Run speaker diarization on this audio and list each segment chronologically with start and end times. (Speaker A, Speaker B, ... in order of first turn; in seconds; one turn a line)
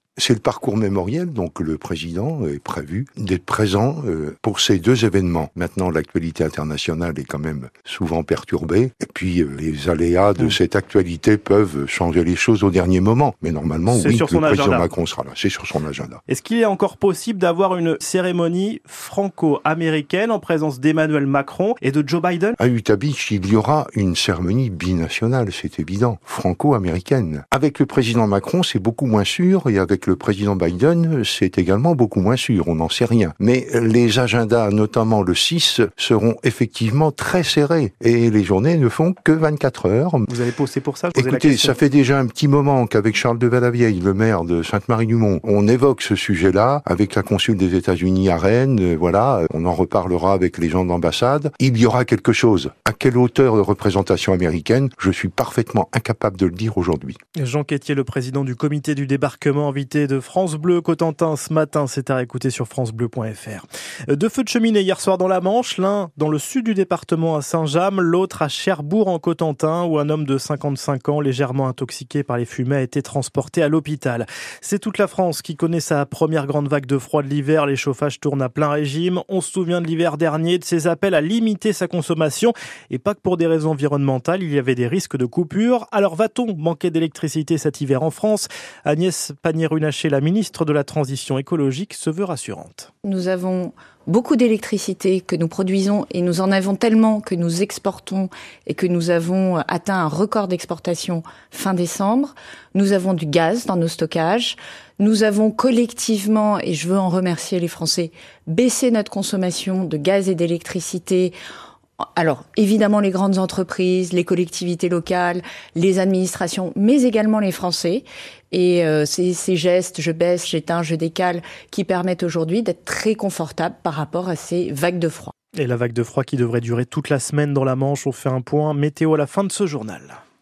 Speaker A: 0.2-16.2
Speaker B: 13.9-14.9
Speaker B: 16.3-22.6
Speaker A: 22.6-40.3
Speaker B: 40.3-41.8
Speaker A: 41.1-57.2
Speaker B: 57.4-92.9
Speaker C: 93.0-111.3
Speaker C: 112.1-125.3
Speaker B: 125.5-130.2